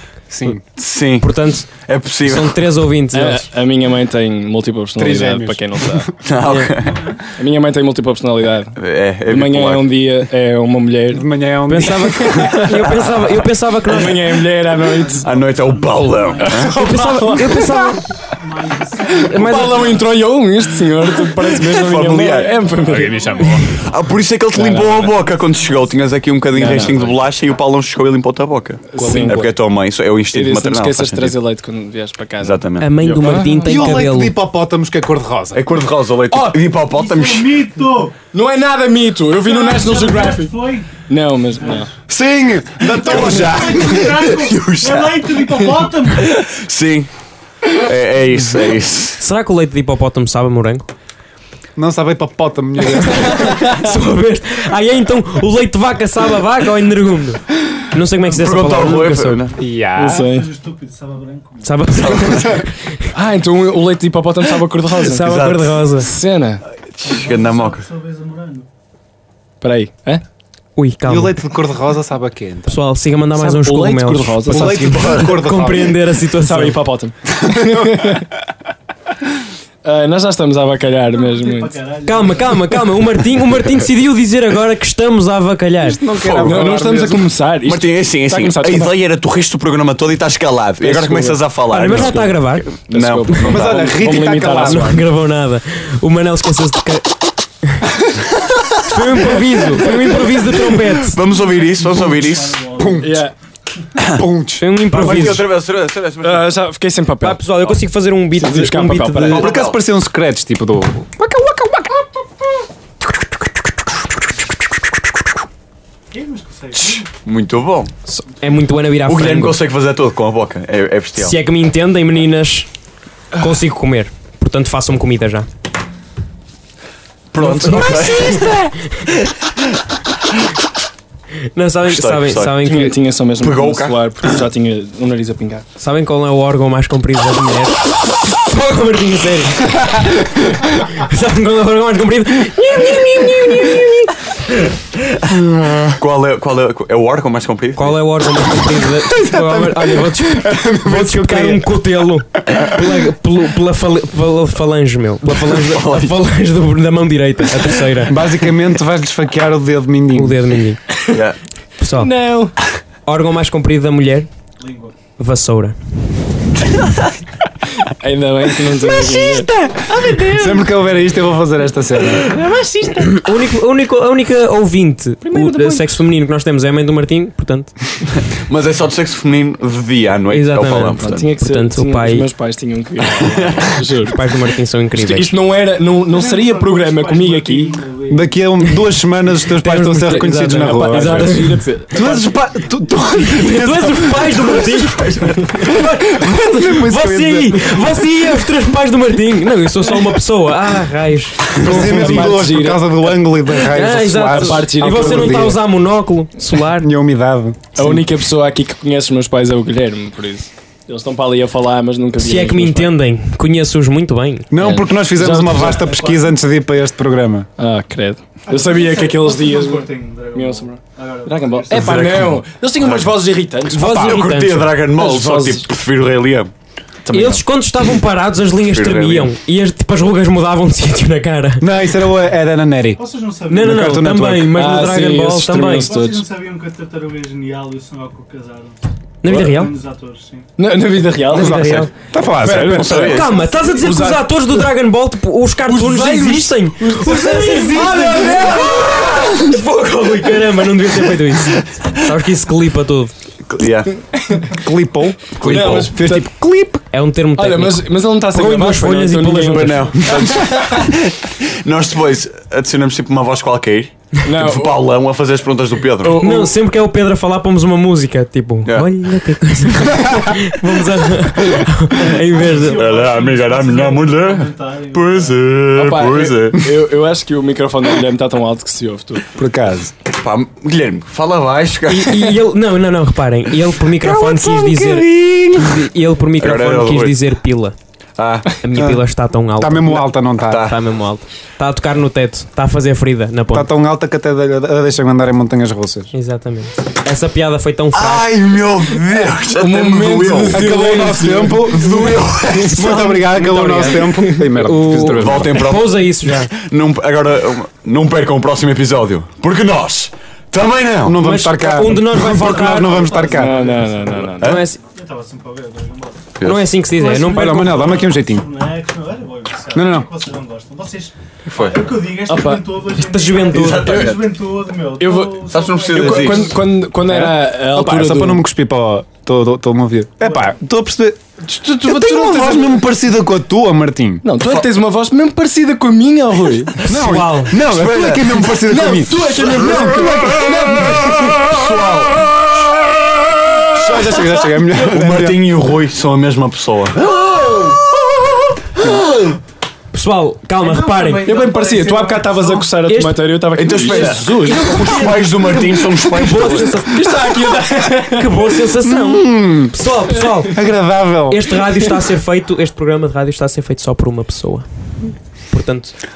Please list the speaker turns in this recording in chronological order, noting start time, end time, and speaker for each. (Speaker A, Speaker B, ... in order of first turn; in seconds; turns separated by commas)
Speaker A: 0.3-0.6, Speaker B: 0.7-2.6, Speaker C: 1.2-1.7, Speaker C: 2.2-3.5, Speaker D: 3.1-6.1, Speaker A: 5.0-6.1, Speaker B: 6.2-7.1, Speaker C: 6.4-6.8, Speaker E: 6.7-7.2, Speaker D: 7.4-15.3, Speaker B: 8.8-9.9, Speaker A: 11.1-12.9, Speaker C: 11.7-14.3, Speaker E: 14.8-16.8, Speaker B: 15.2-16.8, Speaker D: 16.4-18.0, Speaker C: 16.6-18.0, Speaker E: 18.2-20.2, Speaker C: 19.2-20.0, Speaker D: 19.3-23.5, Speaker B: 21.6-22.6, Speaker E: 22.5-23.9, Speaker A: 22.8-23.8, Speaker B: 23.7-31.4, Speaker D: 24.5-25.1, Speaker E: 25.2-25.9, Speaker D: 26.5-27.0, Speaker E: 26.7-27.2, Speaker D: 28.9-29.5, Speaker A: 28.9-29.5, Speaker D: 30.3-34.0, Speaker B: 32.4-33.1, Speaker C: 32.8-34.3, Speaker A: 33.6-35.7, Speaker B: 35.5-37.6, Speaker D: 36.3-36.6, Speaker E: 36.8-38.2, Speaker D: 38.3-41.9, Speaker E: 39.4-41.0, Speaker E: 41.6-41.9, Speaker A: 42.1-44.3, Speaker B: 43.0-45.3, Speaker E: 43.0-46.4, Speaker B: 46.2-47.1, Speaker B: 47.6-49.2, Speaker C: 49.2-50.9, Speaker A: 51.8-53.9, Speaker C: 53.0-59.5, Speaker B: 58.3-59.6, Speaker A: 59.6-60.3, Speaker D: 60.0-60.5, Speaker E: 60.0-61.9, Speaker C: 61.6-63.1, Speaker B: 62.0-62.6, Speaker D: 63.1-66.6, Speaker C: 65.1-66.1, Speaker B: 65.1-65.7, Speaker B: 66.8-67.8, Speaker E: 67.0-68.7, Speaker D: 69.6-70.2, Speaker C: 70.8-71.4, Speaker A: 71.1-72.8, Speaker C: 72.7-76.8, Speaker D: 73.3-75.2, Speaker A: 74.5-76.0, Speaker B: 75.0-75.3, Speaker D: 76.4-78.2, Speaker A: 77.3-78.2, Speaker D: 79.8-81.8, Speaker E: 81.1-82.6, Speaker C: 82.1-86.1, Speaker A: 85.8-87.3, Speaker B: 86.2-86.8, Speaker D: 86.4-88.9, Speaker B: 87.6-94.0, Speaker D: 90.8-95.1, Speaker C: 91.7-92.7, Speaker A: 93.5-95.0, Speaker C: 94.3-97.9, Speaker C: 98.8-101.2, Speaker D: 99.7-100.3, Speaker B: 101.0-102.7, Speaker E: 101.3-103.2, Speaker A: 102.7-103.2, Speaker D: 103.0-103.3, Speaker A: 104.0-105.1, Speaker C: 104.6-105.5, Speaker B: 104.9-106.5, Speaker D: 106.2-107.7, Speaker C: 107.2-109.5, Speaker D: 108.4-109.5, Speaker B: 109.3-109.8, Speaker A: 109.3-112.3, Speaker E: 116.1-117.1, Speaker B: 116.7-117.9, Speaker C: 118.1-119.6, Speaker B: 119.1-121.4, Speaker C: 121.2-122.7, Speaker C: 123.4-125.5, Speaker B: 127.3-128.7, Speaker C: 127.4-129.1, Speaker C: 131.6-132.9, Speaker B: 131.9-132.6, Speaker D: 132.6-135.7, Speaker B: 133.4-134.0, Speaker C: 135.8-144.3, Speaker B: 146.0-148.0, Speaker C: 147.8-158.2, Speaker A: 149.1-151.8, Speaker A: 152.5-152.8, Speaker B: 155.3-156.2, Speaker A: 158.1-160.5, Speaker C: 160.1-160.8, Speaker D: 160.9-161.2, Speaker B: 161.1-161.4, Speaker C: 161.8-162.2, Speaker D: 161.9-162.6, Speaker C: 163.1-164.3, Speaker E: 164.6-164.9, Speaker C: 165.2-165.8, Speaker D: 167.8-170.7, Speaker A: 169.2-169.4, Speaker A: 170.1-172.4, Speaker D: 172.2-173.1, Speaker C: 173.0-178.0, Speaker D: 175.2-176.0, Speaker B: 178.2-181.3, Speaker C: 180.3-182.3, Speaker D: 181.0-184.2, Speaker B: 183.2-183.8, Speaker C: 184.0-185.4, Speaker D: 184.9-187.8, Speaker E: 186.1-188.4, Speaker A: 188.1-194.7, Speaker C: 189.4-191.6, Speaker D: 190.4-192.3, Speaker C: 193.2-202.6, Speaker B: 194.4-195.5, Speaker A: 195.5-197.8, Speaker D: 201.6-203.2, Speaker A: 201.6-205.6, Speaker C: 203.6-206.9, Speaker D: 204.1-205.6, Speaker A: 206.7-208.0, Speaker D: 207.8-213.0, Speaker C: 212.2-214.5, Speaker A: 214.5-217.5, Speaker D: 214.6-216.0, Speaker E: 215.5-216.3, Speaker D: 217.6-224.1, Speaker E: 218.5-222.2, Speaker B: 221.9-222.3, Speaker B: 222.8-223.2, Speaker C: 223.7-224.8, Speaker B: 223.8-226.5, Speaker A: 223.9-224.2, Speaker D: 224.9-225.7, Speaker D: 227.1-227.4, Speaker C: 227.1-231.7, Speaker B: 228.6-229.3, Speaker A: 231.6-233.0, Speaker E: 233.0-233.8, Speaker C: 233.5-235.9, Speaker A: 233.5-234.6, Speaker D: 234.5-236.3, Speaker E: 235.8-240.5, Speaker C: 239.2-239.7, Speaker D: 239.2-239.5, Speaker D: 240.6-244.7, Speaker A: 241.3-243.1, Speaker C: 241.3-241.9, Speaker B: 242.4-243.5, Speaker C: 242.8-253.1, Speaker D: 245.7-249.4, Speaker B: 253.5-253.9, Speaker D: 254.1-254.4, Speaker A: 254.5-256.8, Speaker B: 255.3-256.0, Speaker D: 255.4-256.3, Speaker C: 256.9-260.1, Speaker D: 257.4-260.9, Speaker B: 259.5-266.2, Speaker D: 264.2-264.9, Speaker D: 266.0-266.5, Speaker C: 266.2-272.9, Speaker B: 268.6-268.9, Speaker E: 272.1-275.4, Speaker B: 272.6-276.7, Speaker D: 275.8-279.3, Speaker A: 279.4-279.9, Speaker B: 280.1-282.4, Speaker C: 281.9-287.8, Speaker B: 284.1-285.7, Speaker B: 286.4-287.2, Speaker B: 288.2-288.6, Speaker C: 288.6-293.7, Speaker A: 288.8-289.0, Speaker A: 289.6-290.7, Speaker B: 290.5-290.8, Speaker A: 293.5-296.1, Speaker C: 296.1-298.4, Speaker B: 297.9-301.0, Speaker D: 299.5-302.2, Speaker A: 300.5-305.7, Speaker B: 301.7-302.8, Speaker C: 302.6-306.5, Speaker B: 305.0-311.2, Speaker A: 311.0-313.6, Speaker C: 311.2-313.3, Speaker E: 312.3-316.4, Speaker D: 313.3-314.6, Speaker B: 314.4-314.6, Speaker C: 314.4-314.8, Speaker B: 316.4-316.7, Speaker C: 316.4-318.0, Speaker E: 316.9-326.6, Speaker A: 317.2-318.5, Speaker A: 319.7-320.1, Speaker B: 321.5-321.9, Speaker D: 322.3-322.8, Speaker C: 322.9-324.1, Speaker B: 323.5-324.2, Speaker D: 325.0-328.5, Speaker B: 325.5-326.6, Speaker A: 327.0-334.3, Speaker E: 330.2-330.5, Speaker D: 331.5-332.9, Speaker D: 334.2-336.9, Speaker C: 336.8-337.6, Speaker A: 336.9-341.5, Speaker B: 337.6-338.5, Speaker D: 338.7-341.5, Speaker B: 341.4-342.3, Speaker A: 343.7-345.5, Speaker B: 344.7-349.0, Speaker C: 349.9-351.3, Speaker E: 350.6-352.7, Speaker D: 351.2-354.8, Speaker C: 352.9-360.7, Speaker B: 353.6-356.9, Speaker D: 356.8-358.5, Speaker A: 358.8-359.8, Speaker A: 360.4-361.6, Speaker C: 361.3-364.7, Speaker C: 365.5-365.9